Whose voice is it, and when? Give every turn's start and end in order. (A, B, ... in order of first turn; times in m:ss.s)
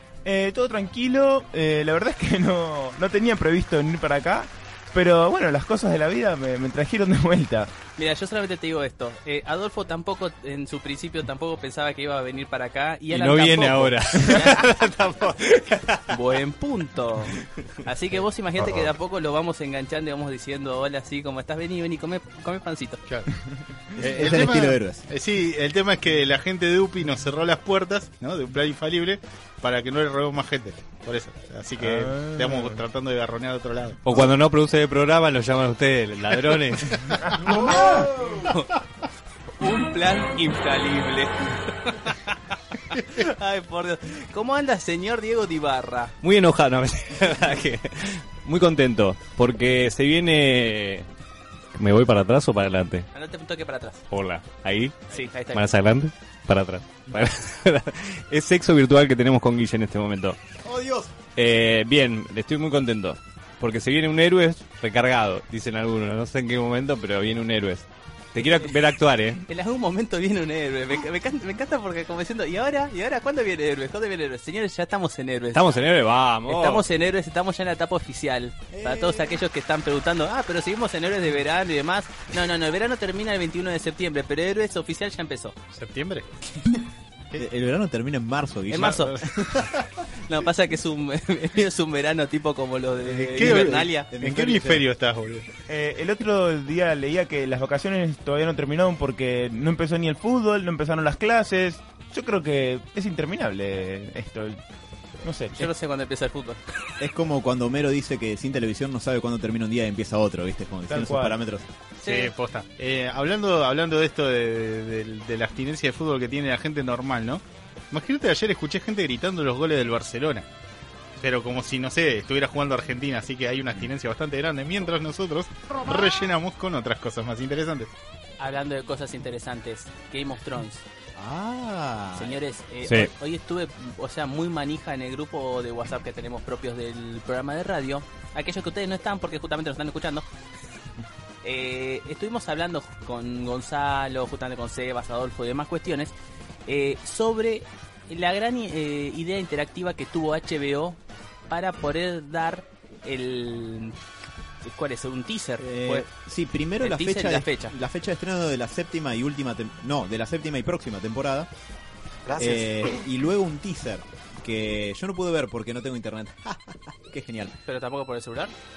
0:00.2-0:07.7 A
0:08.0-0:14.7 B
0:13.1-0:16.2 C
0:16.1-0:23.0 B
0:24.0-0:34.0 D
0:24.1-0:25.1 E
0:31.8-0:32.8 A
0:34.0-0:37.1 C
0:37.1-0:37.8 A
0:37.5-0:38.8 B
0:39.6-0:46.1 B
0:46.2-0:51.1 C
0:51.7-0:53.1 C
0:53.1-0:54.0 B
0:54.1-1:00.4 C
0:55.1-0:55.7 B
1:00.6-1:01.2 E
1:01.4-1:09.4 C
1:09.5-1:15.7 B
1:15.5-1:16.8 C
1:16.5-1:25.6 B
1:18.7-1:19.4 E
1:25.7-1:26.3 D
1:27.4-1:29.4 E
1:28.7-1:29.2 B
1:28.8-1:30.0 D
1:30.3-1:34.1 B
1:33.0-1:34.8 E
1:33.3-1:35.5 D
1:35.7-1:44.6 A
1:45.2-1:45.7 A
1:45.6-1:46.7 B
1:47.0-1:51.7 E
1:50.9-1:51.4 A
1:52.0-1:52.3 B
1:52.0-2:00.5 D
2:01.2-2:07.9 D
2:08.4-2:10.8 B
2:11.2-2:12.4 E
2:12.2-2:20.3 B
2:12.8-2:13.1 C
2:21.4-2:26.1 B
2:26.7-2:34.0 B
2:34.6-2:36.1 B
2:35.6-2:41.5 E
2:36.8-2:37.7 B
2:42.4-2:47.6 E
2:47.6-2:48.5 B